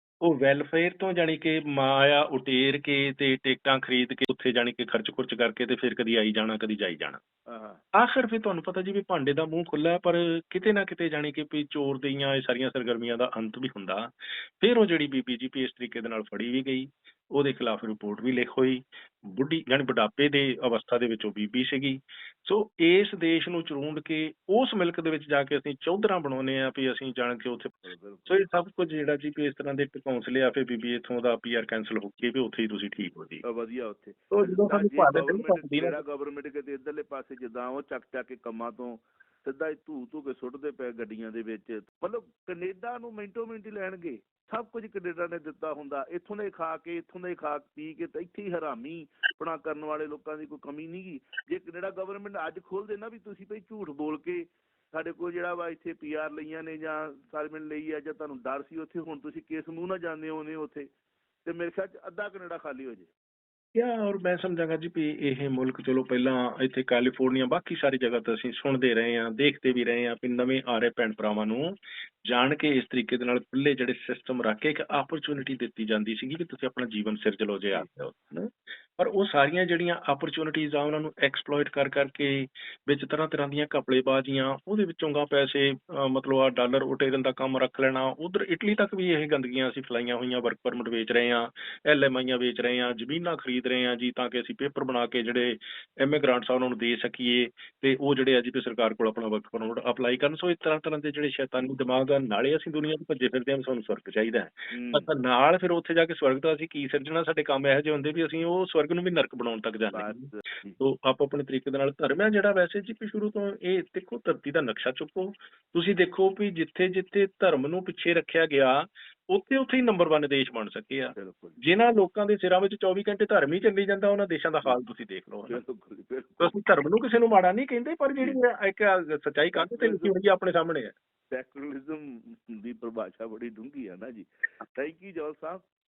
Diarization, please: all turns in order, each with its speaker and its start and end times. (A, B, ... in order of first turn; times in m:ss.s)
0:00.2-0:07.2 A
0:07.5-0:07.8 B
0:07.9-0:33.4 A
0:27.8-0:28.5 B
0:33.4-1:00.9 B
0:34.3-0:36.0 A
1:01.4-1:03.1 B
1:03.7-2:05.6 A
1:44.7-1:45.1 B
1:49.9-1:50.8 B
2:01.1-2:01.6 B
2:05.5-2:06.6 B
2:06.4-2:10.9 A
2:09.5-2:10.1 B
2:11.3-2:15.6 B